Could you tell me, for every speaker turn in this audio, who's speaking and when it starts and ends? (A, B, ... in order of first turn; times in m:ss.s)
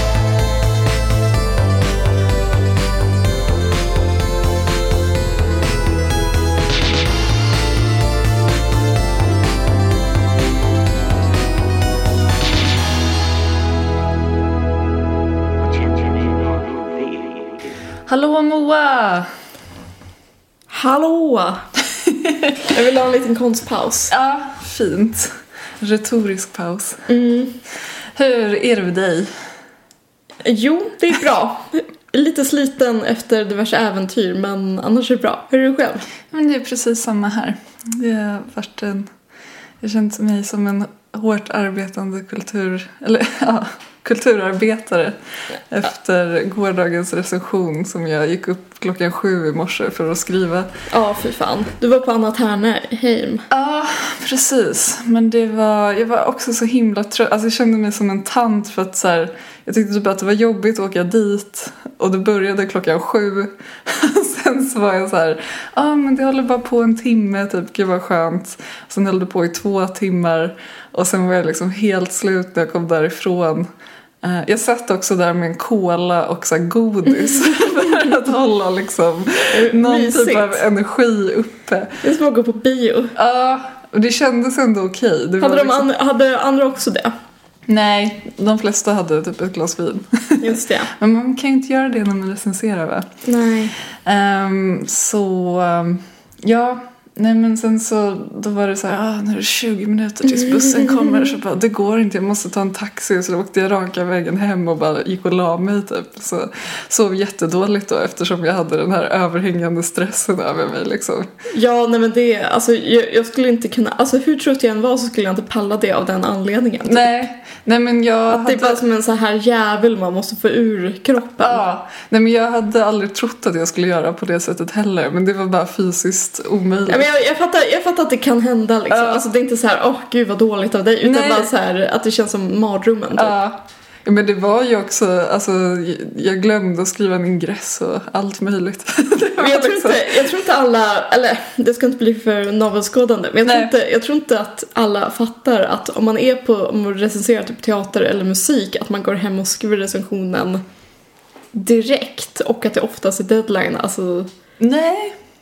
0:15.6-0:17.7 A
0:18.0-0:19.3 B
0:20.7-0:21.6 C
0:22.0-0:22.5 B
0:22.6-0:24.1 C
0:24.1-0:27.0 B
0:27.1-0:27.6 C
0:28.1-0:29.3 B
0:30.4-0:36.0 C
0:36.3-0:39.1 B
0:39.8-0:45.2 B
0:45.7-0:50.7 B
0:50.9-0:53.4 C
0:53.5-1:13.7 B
1:14.2-1:22.0 B
1:19.5-1:20.6 C
1:22.0-1:23.1 C
1:23.2-1:25.9 B
1:25.4-1:27.1 C
1:27.7-1:33.1 B
1:30.4-1:30.9 C
1:33.2-1:33.7 C
1:34.0-1:51.3 B
1:40.3-1:41.3 C
1:51.5-1:57.2 C
1:56.8-1:58.8 B
1:58.3-2:01.6 C
2:01.4-2:07.1 B
2:06.9-2:13.3 C
2:08.9-2:09.2 B
2:11.0-2:11.5 B
2:13.1-2:20.3 B
2:19.4-2:30.6 C
2:23.4-2:23.7 B
2:31.5-2:34.3 C
2:34.6-2:35.2 B